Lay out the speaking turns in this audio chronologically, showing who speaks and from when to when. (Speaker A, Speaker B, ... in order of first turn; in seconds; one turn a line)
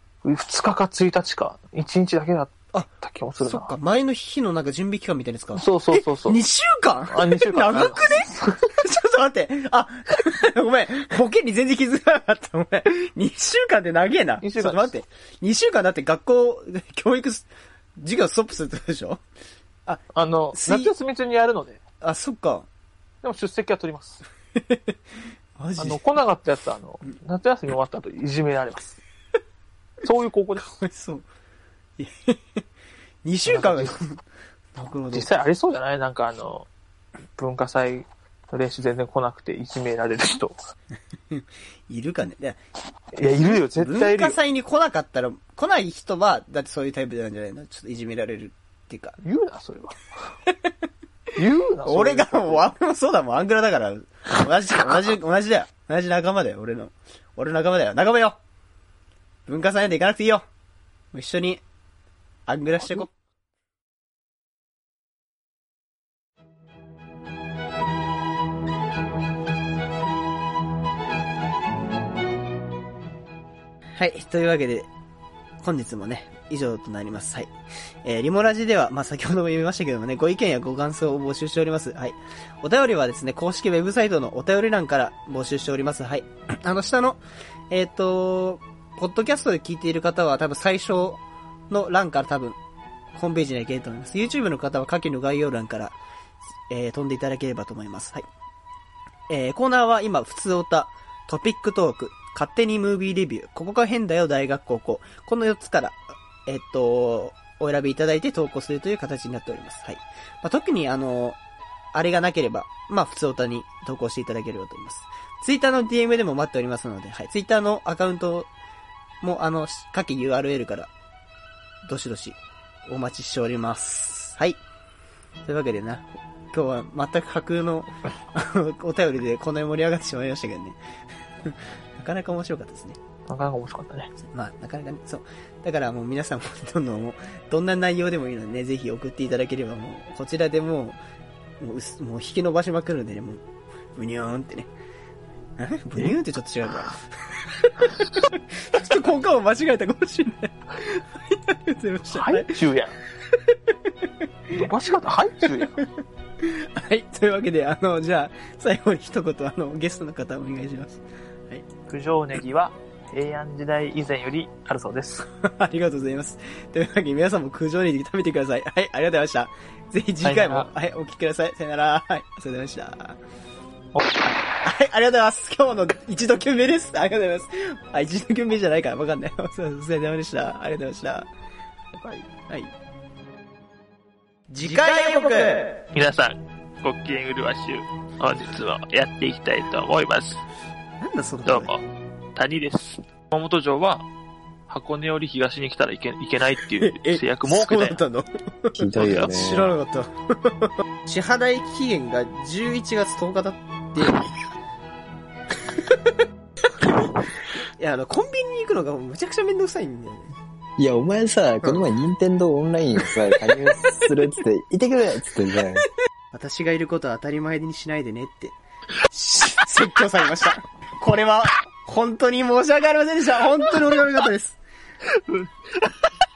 Speaker A: 0.2-3.7
Speaker B: 3.4-19.2
Speaker A: 5.5-6.4
Speaker A: 7.1-8.7
Speaker A: 14.4-14.9
Speaker A: 20.1-21.8
Speaker B: 20.5-20.9
Speaker B: 22.0-22.7
Speaker A: 23.2-24.2
Speaker B: 25.6-26.0
Speaker A: 25.8-29.0
Speaker A: 30.0-30.8
Speaker B: 30.6-31.2
Speaker B: 32.0-32.6
Speaker B: 33.2-34.2
Speaker A: 33.5-34.0
Speaker B: 34.8-35.3
Speaker A: 35.1-36.7
Speaker A: 37.4-40.5
Speaker B: 41.3-42.6
Speaker A: 43.1-44.4
Speaker B: 43.2-49.2
Speaker A: 49.2-50.0
Speaker A: 51.4-52.7
Speaker B: 51.9-58.4
Speaker B: 59.5-60.5
Speaker B: 61.1-61.6
Speaker B: 62.5-63.1
Speaker B: 74.0-74.9
Speaker B: 75.6-77.5
Speaker B: 78.0-91.2
Speaker B: 91.7-92.6
Speaker B: 93.1-96.0
Speaker B: 96.7-98.2
Speaker B: 99.3-111.4
Speaker B: 111.9-118.5
Speaker B: 119.2-120.9
Speaker B: 121.8-124.6
Speaker B: 125.4-130.8
Speaker B: 131.4-133.0
Speaker A: 133.3-134.1
Speaker B: 134.2-141.0
Speaker B: 141.6-143.4
Speaker B: 143.9-144.7
Speaker B: 145.6-152.6
Speaker A: 152.1-153.0
Speaker A: 154.5-155.8
Speaker B: 156.4-161.7
Speaker A: 161.8-165.3
Speaker B: 165.4-173.2
Speaker A: 170.2-170.7
Speaker A: 173.9-174.3
Speaker B: 174.6-181.3
Speaker B: 182.3-182.7
Speaker B: 184.5-185.7
Speaker A: 185.9-190.4
Speaker B: 191.0-191.7
Speaker A: 191.4-194.1
Speaker A: 194.7-198.0
Speaker B: 196.8-204.2
Speaker C: 198.8-199.7
Speaker A: 199.0-199.3
Speaker B: 207.8-210.3
Speaker C: 210.8-215.9
Speaker B: 216.3-218.6
Speaker B: 219.1-224.6
Speaker A: 225.1-226.1